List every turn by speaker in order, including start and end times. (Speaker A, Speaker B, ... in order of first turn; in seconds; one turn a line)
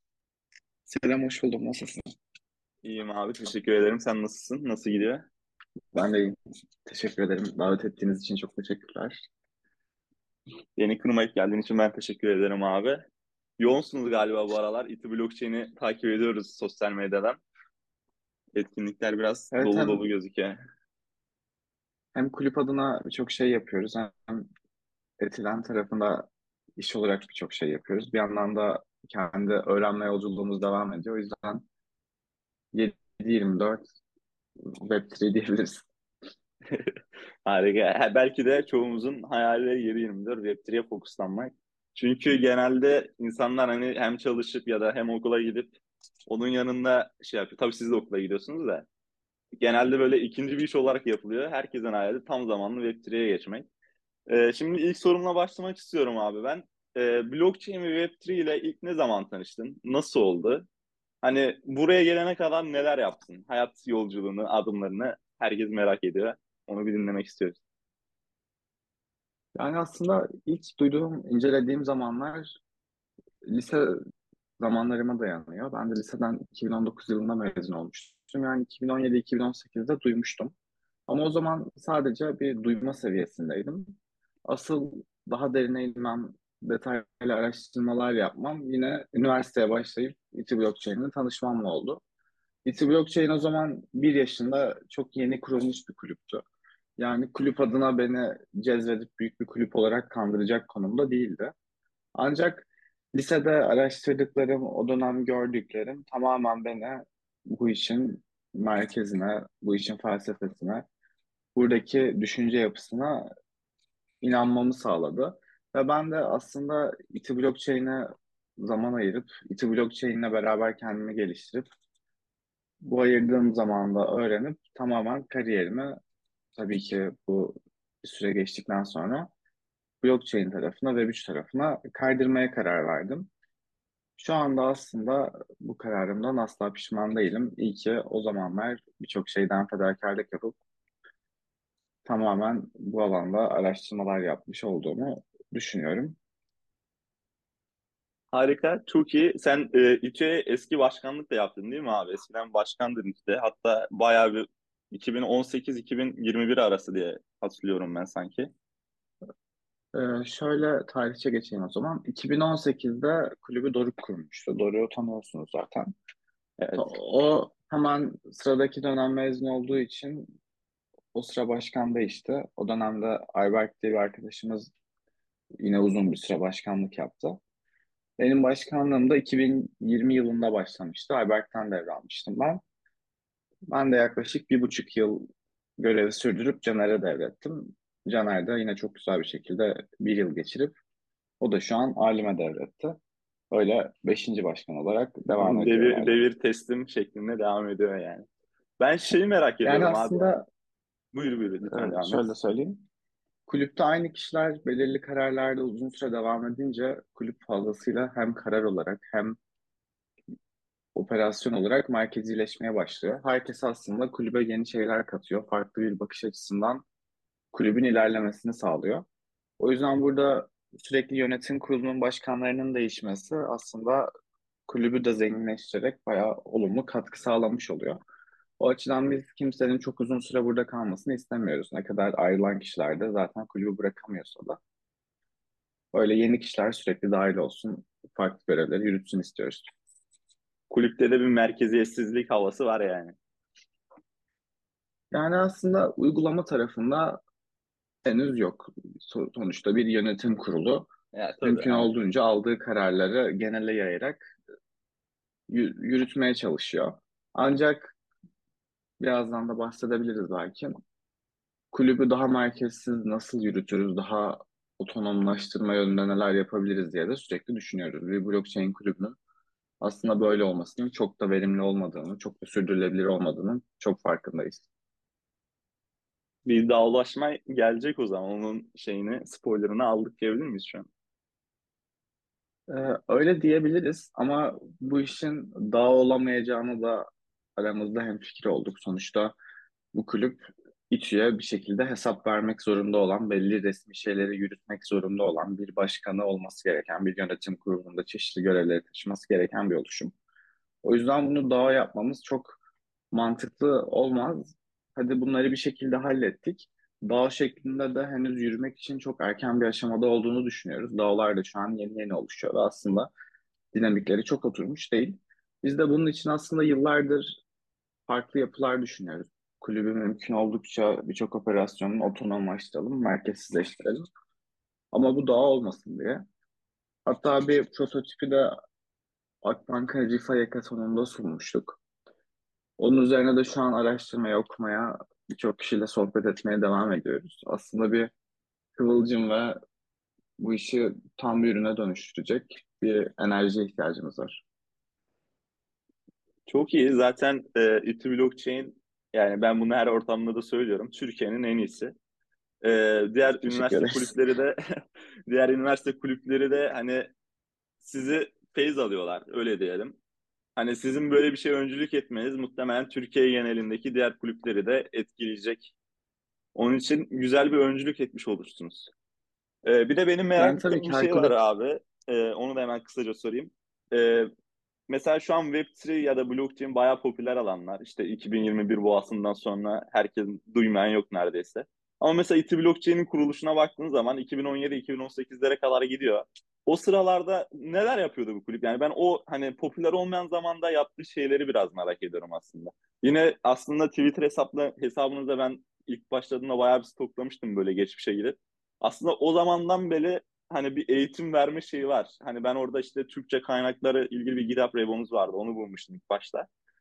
Speaker A: 0.9-2.0
Speaker B: 2.8-5.2
Speaker A: 5.9-9.3
Speaker B: 10.8-13.0
Speaker B: 13.6-17.4
Speaker B: 18.6-20.6
Speaker A: 19.5-20.1
Speaker A: 22.1-24.5
Speaker A: 25.2-31.7
Speaker A: 32.7-33.8
Speaker A: 34.8-35.9
Speaker B: 37.5-45.8
Speaker B: 46.3-48.9
Speaker B: 49.6-53.7
Speaker B: 54.3-60.7
Speaker B: 61.2-67.6
Speaker A: 69.5-72.5
Speaker A: 73.5-74.0
Speaker A: 74.6-80.5
Speaker A: 81.1-84.0
Speaker A: 84.5-92.0
Speaker A: 92.7-96.4
Speaker A: 97.0-101.5
Speaker A: 102.2-110.9
Speaker A: 111.5-113.3
Speaker A: 114.2-118.1
Speaker A: 118.6-121.7
Speaker A: 122.8-126.0
Speaker A: 126.6-129.3
Speaker A: 130.0-133.3
Speaker A: 134.2-140.6
Speaker A: 142.1-146.2
Speaker B: 148.3-158.5
Speaker A: 159.9-165.9
Speaker B: 166.6-166.9
Speaker A: 166.7-170.3
Speaker A: 171.1-174.7
Speaker A: 175.6-177.4
Speaker A: 178.2-182.6
Speaker A: 183.7-190.8
Speaker A: 191.4-193.0
Speaker A: 193.5-196.2
Speaker B: 195.4-198.3
Speaker B: 198.8-200.3
Speaker A: 199.7-200.4
Speaker B: 201.1-202.3
Speaker A: 201.6-202.8
Speaker A: 203.5-209.4
Speaker A: 210.9-216.8
Speaker A: 217.5-219.1
Speaker A: 219.6-224.1
Speaker A: 224.7-228.0
Speaker A: 228.6-234.6
Speaker A: 235.9-239.7
Speaker B: 240.7-243.2
Speaker A: 245.1-247.2
Speaker A: 248.1-250.9
Speaker B: 251.1-251.9
Speaker A: 251.4-254.3
Speaker A: 255.5-257.9
Speaker A: 259.0-260.7
Speaker A: 261.7-269.2
Speaker A: 269.8-274.7
Speaker B: 276.4-280.9
Speaker A: 282.7-289.3
Speaker A: 289.9-300.1
Speaker A: 300.8-302.6
Speaker A: 303.1-313.1
Speaker A: 313.7-317.4
Speaker A: 318.1-324.1
Speaker A: 324.9-326.2
Speaker A: 327.1-328.6
Speaker A: 329.4-331.8
Speaker A: 332.8-338.1
Speaker A: 338.8-339.6
Speaker A: 340.4-344.4
Speaker B: 346.5-351.9
Speaker B: 352.6-354.6
Speaker A: 353.5-354.1
Speaker B: 355.3-357.1
Speaker B: 357.8-360.0
Speaker B: 360.6-365.7
Speaker B: 366.6-368.9
Speaker B: 369.6-374.3
Speaker A: 370.4-371.4
Speaker B: 374.9-406.5